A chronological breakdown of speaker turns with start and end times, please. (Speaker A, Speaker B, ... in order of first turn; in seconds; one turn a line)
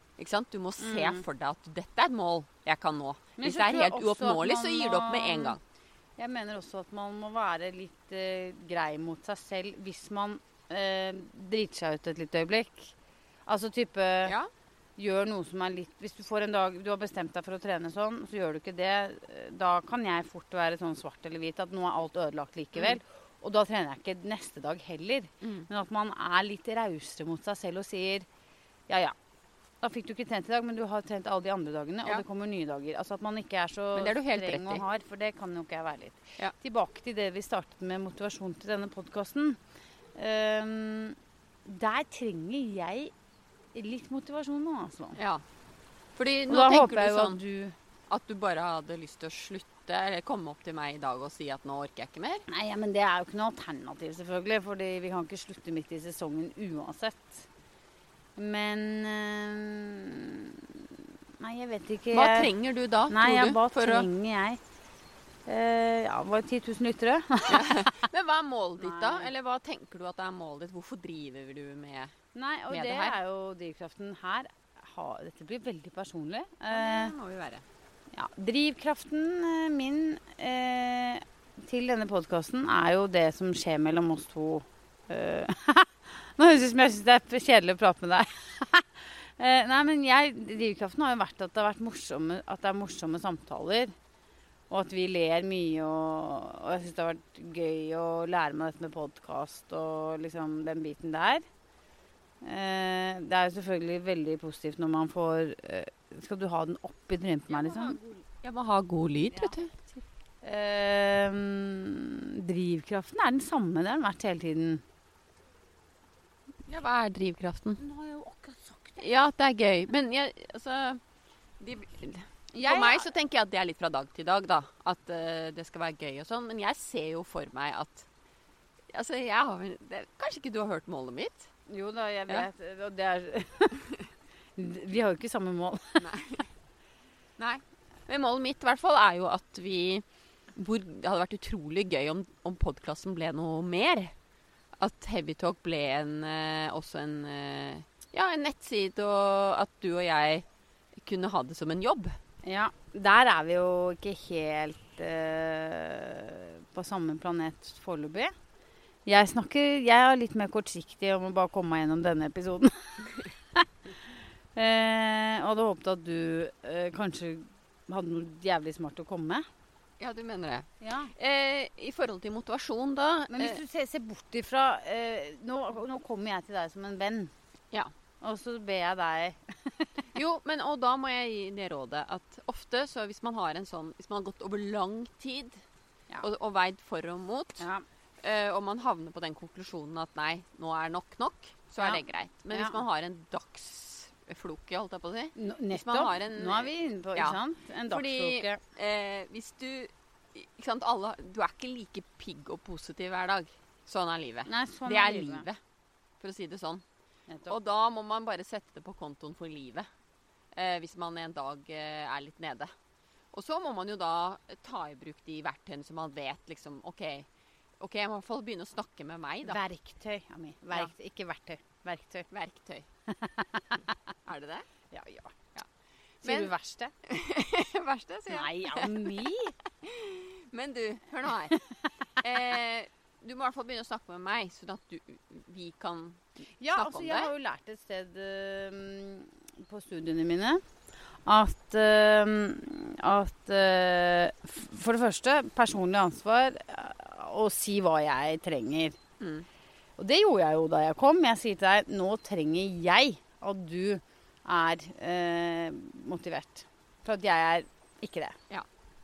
Speaker A: 0.2-5.6
Speaker B: 0.8-1.2
Speaker B: 3.4-5.6
Speaker B: 6.2-12.9
Speaker B: 13.5-14.4
Speaker B: 15.0-28.3
Speaker A: 25.4-25.7
Speaker B: 28.9-29.1
Speaker B: 29.8-39.6
Speaker A: 33.9-34.8
Speaker B: 40.2-43.1
Speaker B: 43.8-45.2
Speaker A: 45.2-45.4
Speaker A: 46.2-47.4
Speaker B: 46.5-47.8
Speaker A: 48.1-52.5
Speaker B: 52.5-57.5
Speaker B: 58.4-60.9
Speaker B: 61.4-62.5
Speaker A: 62.1-64.1
Speaker B: 63.1-64.6
Speaker B: 65.5-68.0
Speaker A: 67.5-72.1
Speaker B: 68.8-69.3
Speaker B: 72.3-77.2
Speaker A: 72.7-73.2
Speaker A: 76.7-77.7
Speaker B: 78.1-93.9
Speaker B: 94.7-101.4
Speaker B: 102.4-108.2
Speaker A: 107.5-109.7
Speaker B: 110.4-114.8
Speaker A: 116.7-117.8
Speaker B: 117.8-119.1
Speaker A: 119.0-121.0
Speaker A: 121.6-128.1
Speaker B: 122.5-123.1
Speaker A: 128.9-131.5
Speaker B: 131.7-133.9
Speaker B: 134.6-136.1
Speaker A: 136.0-136.5
Speaker A: 137.4-144.1
Speaker A: 144.8-152.2
Speaker B: 152.4-158.3
Speaker B: 159.1-163.7
Speaker B: 164.6-169.4
Speaker A: 170.0-173.6
Speaker B: 170.8-171.1
Speaker B: 173.3-177.3
Speaker B: 178.2-179.9
Speaker A: 180.2-185.6
Speaker A: 186.2-187.7
Speaker B: 187.6-187.8
Speaker A: 188.2-205.6
Speaker B: 191.8-192.8
Speaker B: 195.4-198.6
Speaker B: 204.5-205.5
Speaker A: 206.2-206.8
Speaker B: 207.3-207.5
Speaker A: 207.5-209.9
Speaker A: 210.5-212.7
Speaker A: 213.3-217.3
Speaker A: 217.8-219.6
Speaker B: 219.4-222.3
Speaker A: 222.3-222.9
Speaker B: 223.2-223.8
Speaker A: 224.3-224.7
Speaker B: 224.9-225.3
Speaker A: 226.2-226.5
Speaker B: 226.2-226.9
Speaker A: 227.1-231.6
Speaker B: 228.3-229.6
Speaker A: 232.2-237.3
Speaker B: 236.6-240.6
Speaker B: 241.3-249.0
Speaker A: 249.2-249.5
Speaker B: 250.0-258.4